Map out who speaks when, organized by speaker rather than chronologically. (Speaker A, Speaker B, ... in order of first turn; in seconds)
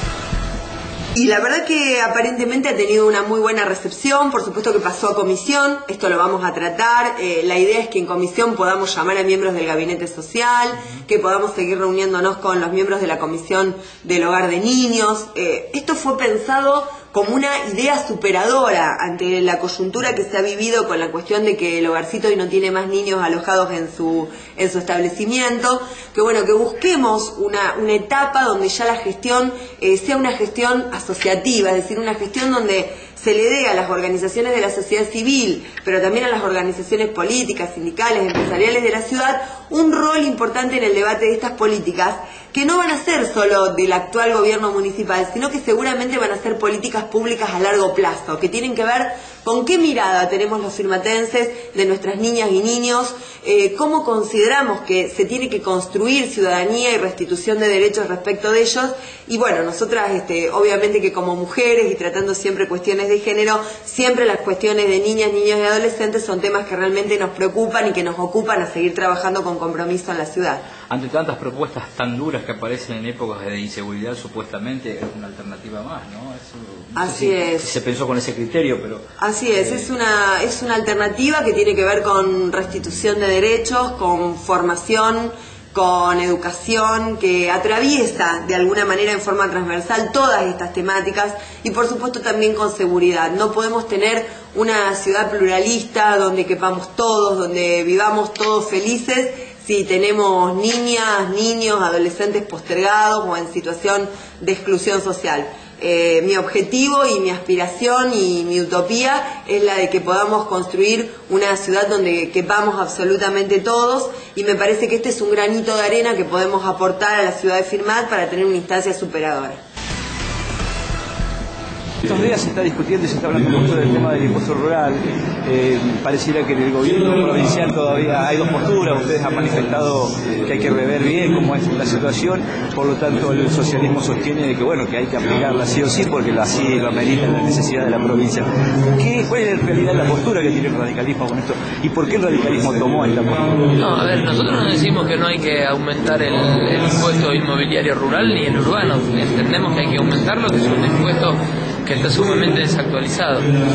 Speaker A: 1.1-70.6, 76.9-77.7, 79.2-119.6
Speaker B: 70.9-79.0
Speaker C: 77.8-79.0, 122.0-143.7
Speaker D: 143.8-153.5